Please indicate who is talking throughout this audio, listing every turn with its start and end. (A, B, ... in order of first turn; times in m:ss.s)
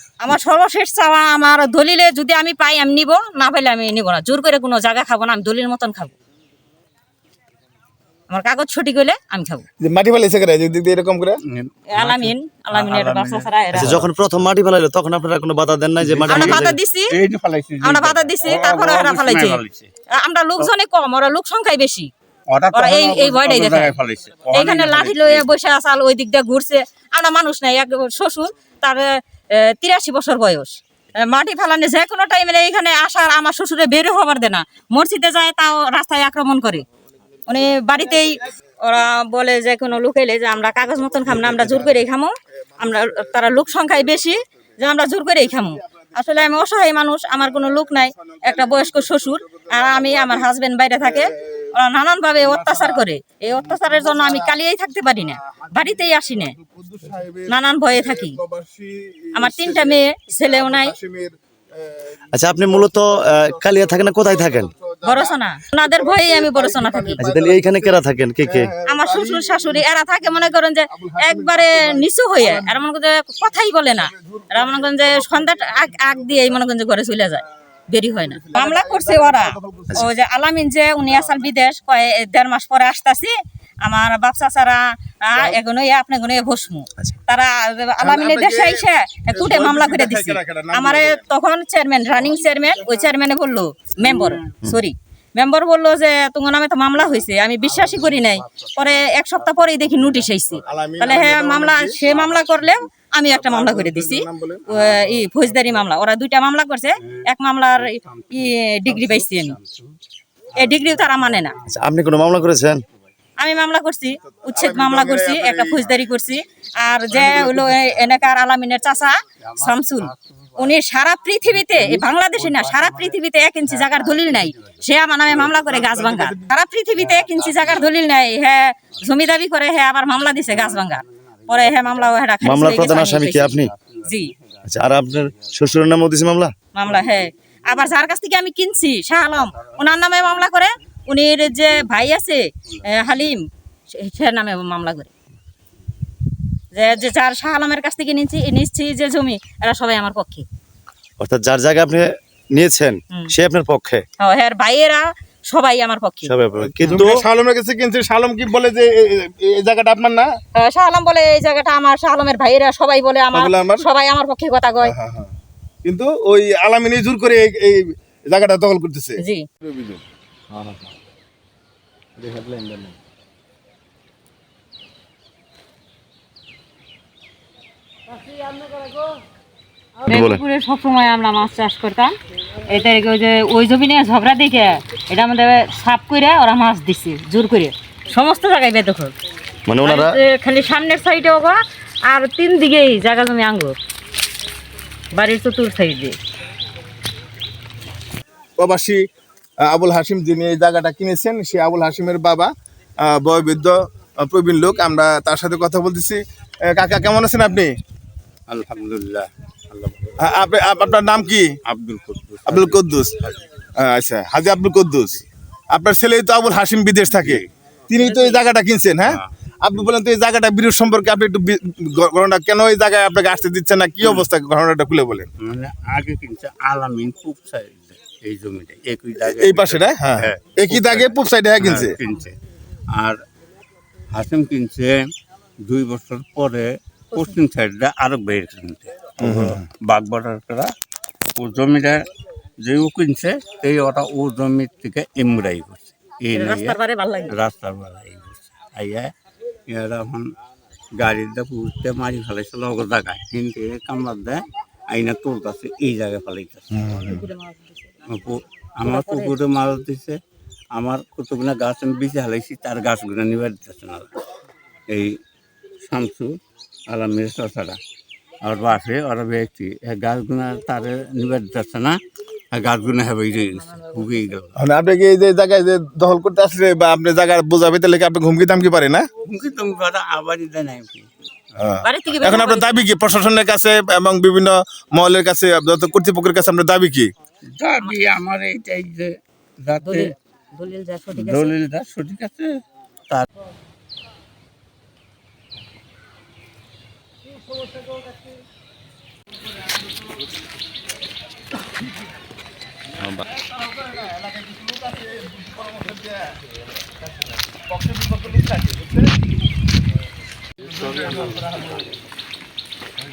0:00.2-0:06.1 A
0:08.3-0:09.7 A
0:09.8-0:11.4 B
0:11.4-0:14.1 C
0:11.9-0:13.9 A
0:13.7-0:16.8 D
0:16.0-0:19.9 C
0:16.3-0:17.2 A
0:17.8-0:19.6 A
0:20.2-0:22.1 A
0:22.5-0:25.5 C
0:22.7-0:24.0 A
0:24.5-0:36.9 A
0:37.5-0:56.6 A
0:41.3-0:42.0 B
0:48.3-0:49.0 B
0:49.6-0:50.5 B
0:51.0-0:51.7 B
0:52.4-0:53.0 B
0:53.6-0:54.5 B
0:55.5-1:09.8 B
0:57.5-0:58.4 A
0:59.4-1:01.0 A
1:02.3-1:04.7 D
1:05.0-1:07.2 A
1:07.2-1:08.7 D
1:08.9-1:23.3 A
1:10.9-1:12.8 B
1:14.0-1:16.6 B
1:18.2-1:20.1 B
1:21.1-1:21.4 B
1:23.8-1:49.6 A
1:28.0-1:31.2 B
1:34.0-1:34.6 C
1:37.0-1:40.7 C
1:40.7-1:42.0 B
1:42.0-1:42.7 C
1:43.3-1:44.8 B
1:44.8-1:45.7 C
1:47.0-1:50.0 C
1:50.5-1:51.7 C
1:50.6-1:51.6 A
1:51.7-1:52.8 D
1:53.4-2:14.3 A
1:54.2-1:55.9 B
1:57.1-1:57.9 B
1:59.4-2:00.8 C
2:01.5-2:03.2 C
2:03.7-2:05.8 C
2:05.6-2:06.5 B
2:07.0-2:08.0 C
2:08.9-2:09.2 C
2:10.4-2:12.1 C
2:12.4-2:13.7 D
2:12.7-2:15.6 C
2:14.6-2:16.5 D
2:16.8-2:25.1 A
2:16.9-2:17.2 C
2:17.7-2:18.1 C
2:19.4-2:20.5 C
2:22.7-2:23.3 C
2:26.8-2:30.4 A
2:31.2-2:34.0 D
2:34.2-2:37.0 A
2:36.2-2:37.2 D
2:36.9-2:40.3 B
2:40.6-2:44.9 A
2:43.3-2:43.8 B
2:44.8-2:45.3 B
2:45.8-2:50.0 B
2:49.2-2:49.4 A
3:00.1-3:02.1 A
3:00.1-3:00.4 D
3:02.7-3:09.2 A
3:09.7-3:10.2 D
3:09.8-3:13.8 A
3:15.1-3:16.2 A
3:18.6-3:19.0 B
3:19.6-3:22.5 B
3:23.0-3:27.7 B
3:28.5-3:30.4 C
3:30.2-3:31.5 B
3:31.6-3:33.5 C
3:32.5-3:33.2 B
3:33.8-3:45.3 B
3:37.1-3:37.5 C
3:38.0-3:38.4 A
3:39.0-3:39.3 C
3:45.4-3:52.4 C
3:49.2-3:52.0 B
3:52.9-3:53.2 C
3:54.1-3:55.1 C
3:55.6-4:00.7 C
3:59.2-3:59.6 B
4:01.4-4:02.0 C
4:02.6-4:09.1 C
4:06.4-4:07.4 A
4:09.7-4:10.3 C
4:11.0-4:16.9 C
4:16.7-4:17.3 B
4:17.0-4:18.0 A
4:18.0-4:20.2 C
4:18.8-4:19.4 A
4:20.7-4:24.1 C
4:24.9-4:25.2 C
4:25.8-4:27.8 C
4:28.4-4:32.0 C
4:32.5-4:34.5 C
4:33.6-4:34.3 A
4:34.6-4:39.0 B
4:39.2-4:41.1 C
4:41.6-4:47.1 B
4:41.8-4:42.9 A
4:47.5-4:50.1 C
4:49.8-4:51.6 A
4:51.2-4:53.3 C
5:03.3-5:06.4 B
5:07.7-5:09.2 B
5:10.6-5:11.9 B